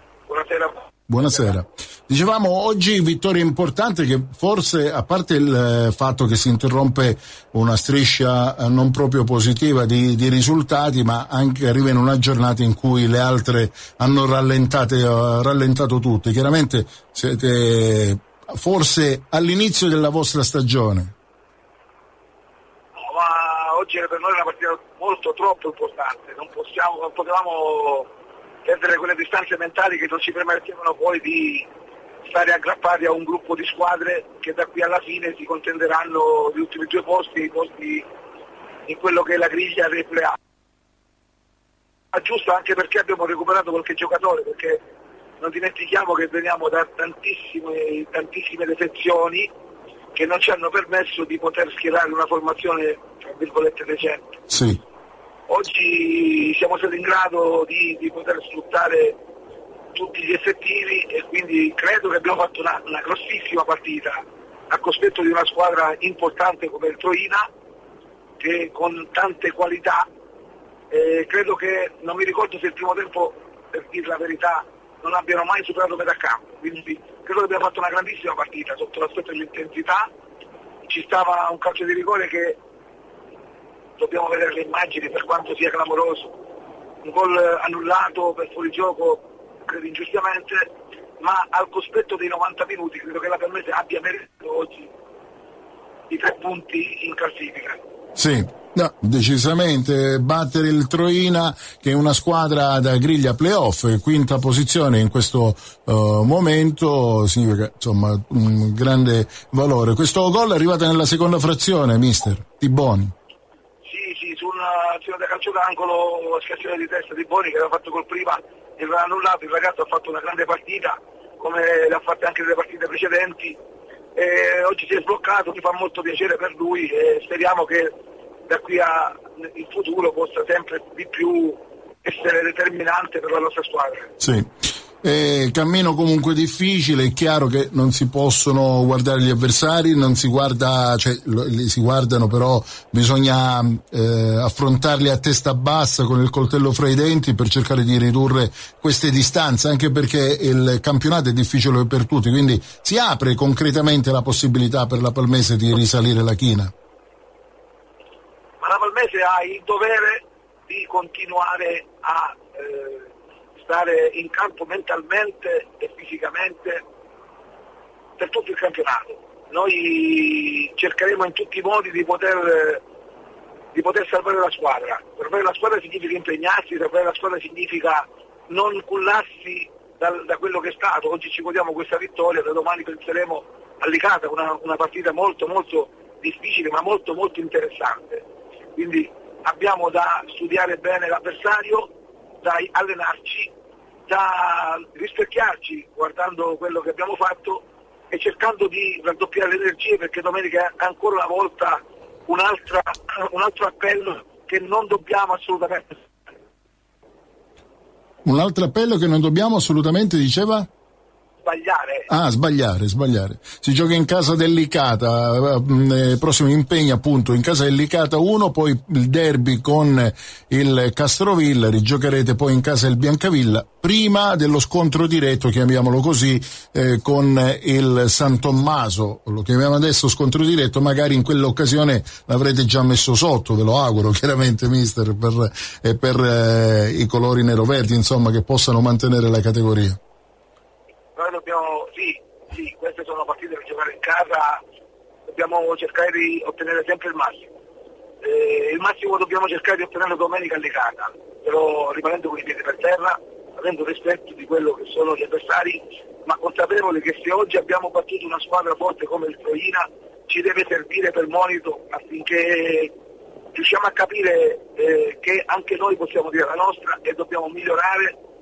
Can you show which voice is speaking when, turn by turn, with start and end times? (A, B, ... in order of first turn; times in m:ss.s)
0:00.3-0:00.8 A
0:01.1-0:21.1 B
0:22.9-0:28.1 A
0:28.6-0:31.7 A
0:32.2-0:38.1 A
0:38.9-0:40.4 A
0:42.1-0:44.8 A
0:45.4-0:49.5 A
0:50.1-0:54.4 A
0:54.5-0:54.8 B
0:55.5-0:59.2 A
0:59.9-1:07.5 A
1:08.4-1:10.1 A
1:10.9-1:20.1 A
1:20.8-1:22.6 A
1:24.0-1:26.3 A
1:27.0-1:30.7 A
1:31.2-1:34.9 A
1:36.1-1:37.8 A
1:38.2-1:53.1 B
1:53.8-2:03.6 A
2:04.1-2:07.9 A
2:08.5-2:14.1 A
2:14.2-2:14.5 B
2:15.0-2:36.7 B
2:38.6-2:46.8 A
2:48.2-2:52.8 A
2:53.7-3:11.9 A
3:12.4-3:13.5 A
3:14.1-3:26.0 A
3:28.2-3:30.7 B
3:31.4-3:32.1 A
3:32.1-4:00.0 B
4:01.1-4:04.6 A
4:05.3-4:07.4 A
4:08.2-4:22.9 A
4:23.5-4:28.2 A